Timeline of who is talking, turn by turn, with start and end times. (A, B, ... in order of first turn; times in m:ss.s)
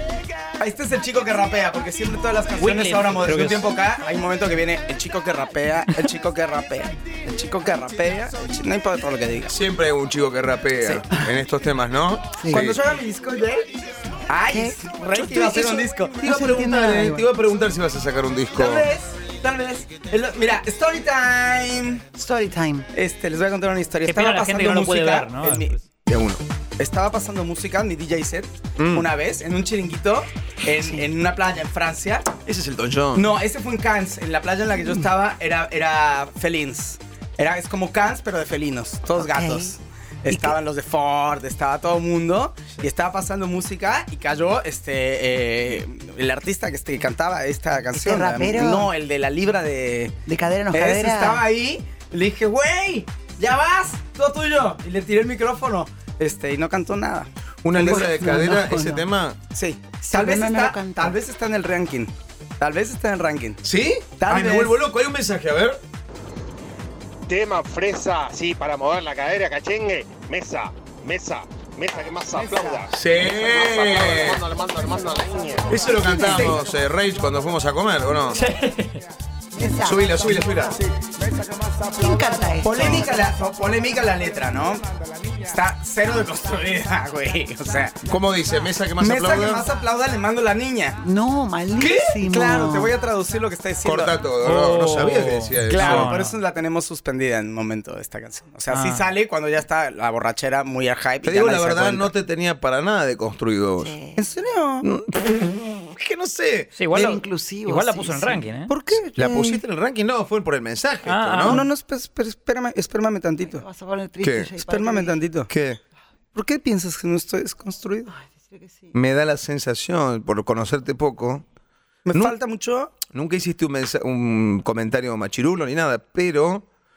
0:00.6-0:09.6 A
0:02.6-0:03.7 B
0:09.5-0:12.8 C
0:12.4-0:12.7 D
0:12.5-0:13.7 A
0:14.3-0:16.2 A
0:14.5-0:17.3 D
0:16.2-0:18.9 C
0:18.5-0:22.0 A
0:22.2-0:22.9 D
0:22.9-0:25.8 A
0:24.1-0:25.8 B
0:26.1-0:26.4 C
0:26.8-0:32.3 A
0:28.8-0:29.1 C
0:30.7-0:31.1 D
0:32.4-0:33.3 C
0:33.1-0:50.2 A
0:39.2-0:39.7 D
0:40.3-0:40.6 D
0:47.9-0:48.9 D
0:50.3-0:51.4 D
0:50.7-0:58.1 A
0:57.6-0:59.4 C
0:57.7-0:59.1 D
0:59.5-1:03.6 A
1:00.0-1:01.2 D
1:03.6-1:05.8 C
1:04.2-1:04.8 A
1:07.3-1:15.7 E
1:12.3-1:12.9 A
1:12.9-1:14.5 C
1:15.7-1:18.4 C
1:15.8-1:16.8 D
1:18.3-1:19.0 B
1:19.5-1:20.8 D
1:19.8-1:20.8 C
1:21.8-1:23.1 D
1:22.6-1:24.8 A
1:25.4-1:28.0 A
1:28.0-1:29.6 C
1:29.0-1:31.0 A
1:31.0-1:33.0 D
1:31.8-1:34.2 A
1:33.8-1:36.1 C
1:34.4-1:36.4 B
1:35.7-1:42.1 A
1:38.7-1:39.0 B
1:41.2-1:44.0 C
1:43.8-1:44.2 D
1:44.2-1:44.9 A
1:44.8-1:46.7 C
1:46.8-1:48.7 B
1:46.9-1:48.5 D
1:48.7-1:49.6 A
1:48.9-1:51.6 C
1:51.1-1:51.6 B
1:51.4-1:53.6 A
1:53.4-1:55.2 D
1:54.2-1:54.5 C
1:54.6-1:55.5 A
1:55.5-1:55.8 C
1:56.3-1:58.1 A
1:58.1-1:59.0 D
1:58.9-2:01.4 C
2:02.1-2:03.0 A
2:03.0-2:06.6 C